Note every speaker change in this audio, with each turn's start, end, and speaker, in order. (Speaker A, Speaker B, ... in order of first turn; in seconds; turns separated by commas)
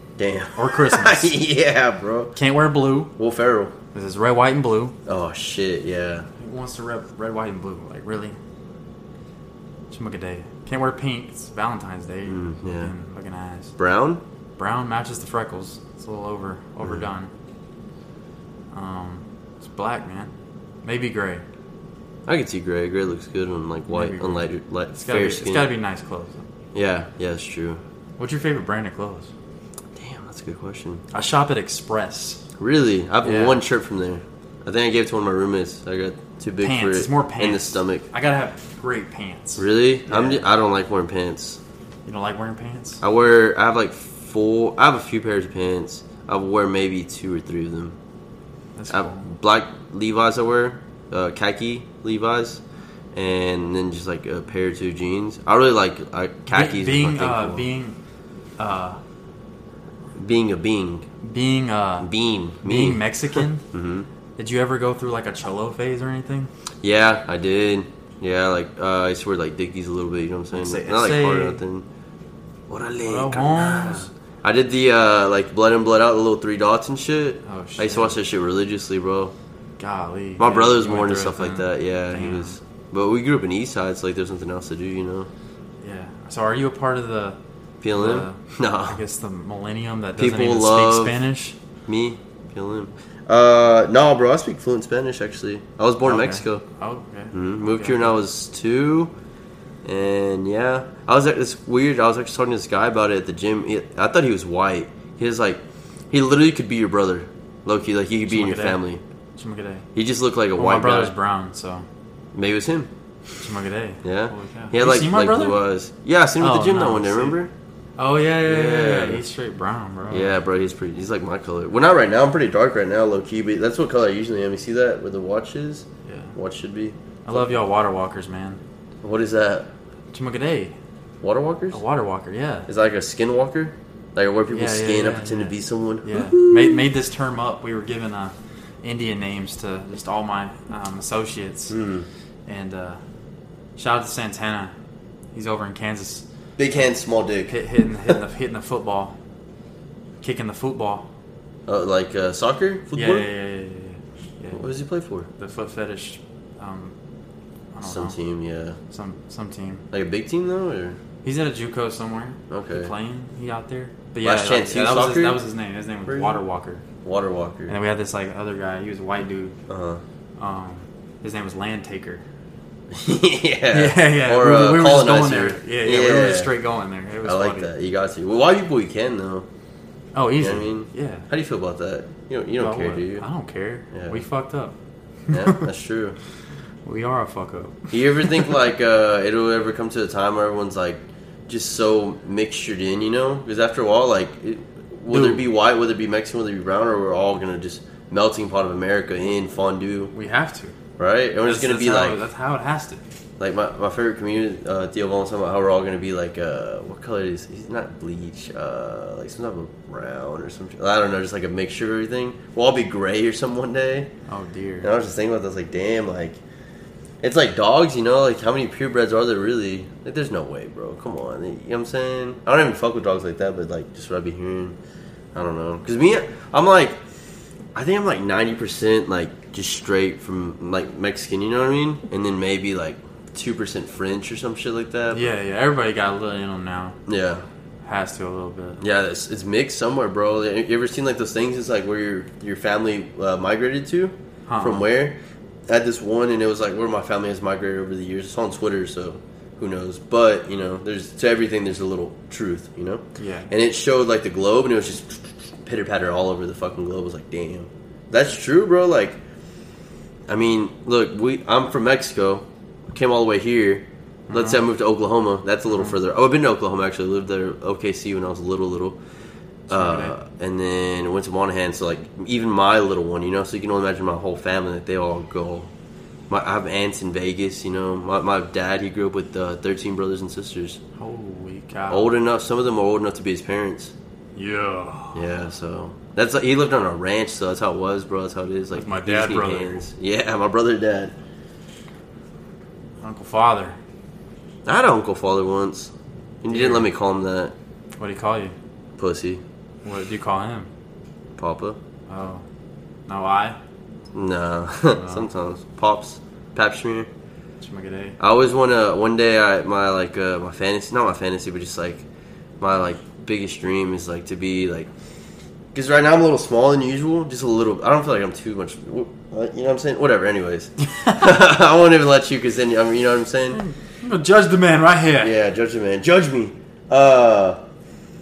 Speaker A: 0.2-2.3, Speaker B: 0.5-1.4, Speaker B: 2.3-3.1, Speaker A: 3.2-3.7, Speaker B: 3.9-4.9, Speaker A: 5.0-6.3, Speaker B: 6.4-8.4, Speaker B: 9.9-13.7, Speaker A: 12.3-12.9, Speaker A: 13.8-14.2, Speaker B: 14.6-17.3, Speaker B: 18.7-20.3, Speaker B: 20.8-21.4, Speaker A: 22.2-25.7, Speaker B: 23.9-26.4, Speaker A: 26.7-27.8, Speaker B: 28.2-29.3, Speaker A: 29.9-31.0, Speaker B: 31.1-32.4, Speaker A: 32.6-38.0, Speaker B: 33.2-33.6, Speaker B: 36.6-40.4, Speaker A: 39.6-41.6, Speaker B: 42.0-43.0, Speaker A: 43.0-48.0, Speaker B: 48.8-49.2, Speaker A: 48.9-52.6, Speaker A: 53.1-57.7, Speaker B: 56.5-58.0, Speaker B: 58.6-59.0, Speaker A: 60.1-61.0, Speaker B: 61.2-62.1, Speaker A: 62.0-64.1, Speaker B: 62.6-63.6, Speaker B: 64.4-66.5, Speaker A: 66.8-71.8, Speaker B: 70.5-71.6, Speaker A: 72.7-79.3, Speaker B: 73.0-74.1, Speaker B: 77.4-78.2, Speaker B: 79.8-82.5, Speaker A: 80.4-85.3, Speaker B: 85.8-87.4, Speaker A: 87.8-89.0, Speaker B: 87.9-91.6, Speaker A: 90.2-91.1, Speaker A: 91.9-96.6, Speaker B: 96.0-98.2, Speaker A: 97.3-99.1, Speaker A: 99.8-109.0, Speaker B: 108.2-108.8, Speaker B: 109.3-109.8, Speaker A: 109.9-111.1, Speaker B: 110.5-111.8, Speaker A: 112.3-112.9, Speaker B: 113.4-115.6, Speaker A: 114.0-117.5, Speaker B: 116.4-117.4, Speaker B: 118.0-120.3, Speaker A: 118.4-119.2, Speaker A: 120.1-127.6, Speaker B: 126.0-126.3, Speaker B: 127.2-128.6, Speaker A: 129.0-129.7, Speaker B: 130.1-130.7, Speaker A: 131.2-131.8, Speaker B: 131.7-132.7, Speaker A: 132.7-136.9, Speaker B: 134.5-141.8, Speaker A: 141.7-142.1, Speaker B: 142.5-143.0, Speaker B: 143.8-144.7, Speaker B: 145.3-146.2, Speaker A: 146.6-147.5, Speaker B: 147.5-149.2, Speaker B: 150.2-151.1, Speaker A: 151.7-153.3, Speaker B: 152.9-154.7, Speaker A: 154.5-155.3, Speaker B: 155.3-156.9, Speaker B: 157.7-158.2, Speaker A: 157.8-158.8, Speaker B: 158.9-159.8, Speaker A: 159.9-161.0, Speaker B: 161.2-166.8, Speaker A: 162.5-162.9, Speaker A: 164.2-165.4, Speaker A: 166.1-166.4, Speaker A: 167.0-167.8, Speaker B: 167.7-169.5, Speaker A: 169.7-170.0, Speaker B: 170.4-172.2, Speaker A: 172.9-176.5, Speaker B: 173.7-177.7, Speaker A: 177.2-179.5, Speaker B: 180.1-181.3, Speaker A: 180.4-183.2, Speaker B: 182.6-184.7, Speaker A: 183.9-184.2, Speaker B: 185.3-185.7, Speaker A: 185.3-186.2, Speaker B: 186.8-187.9, Speaker A: 187.9-200.1, Speaker B: 195.1-195.4, Speaker B: 200.1-200.7, Speaker A: 201.0-202.2, Speaker B: 201.4-203.0, Speaker A: 203.4-214.1, Speaker B: 214.3-214.9, Speaker A: 214.8-216.4, Speaker A: 217.2-224.8, Speaker A: 225.3-227.0, Speaker A: 227.7-235.3, Speaker B: 235.1-237.0, Speaker A: 237.1-237.4, Speaker B: 237.8-238.8, Speaker A: 238.8-245.2, Speaker B: 244.5-244.8, Speaker A: 245.7-259.2, Speaker B: 253.2-253.5, Speaker A: 260.3-269.0, Speaker B: 264.3-264.6, Speaker B: 269.7-270.1, Speaker A: 269.7-275.7, Speaker A: 276.3-280.8, Speaker B: 281.0-282.1, Speaker A: 281.9-283.9, Speaker B: 284.4-285.2, Speaker A: 285.1-291.1, Speaker B: 288.7-289.8, Speaker B: 293.0-293.8, Speaker A: 294.6-297.5, Speaker B: 296.5-296.9, Speaker B: 298.0-298.5, Speaker A: 299.0-299.4, Speaker B: 299.8-300.7, Speaker A: 301.4-301.8, Speaker B: 302.1-302.4, Speaker B: 303.1-303.6, Speaker A: 304.1-307.1, Speaker B: 304.9-305.3, Speaker B: 307.6-308.1, Speaker A: 308.2-312.0, Speaker A: 312.6-314.9, Speaker A: 315.7-323.6, Speaker B: 323.5-325.3, Speaker A: 325.2-327.6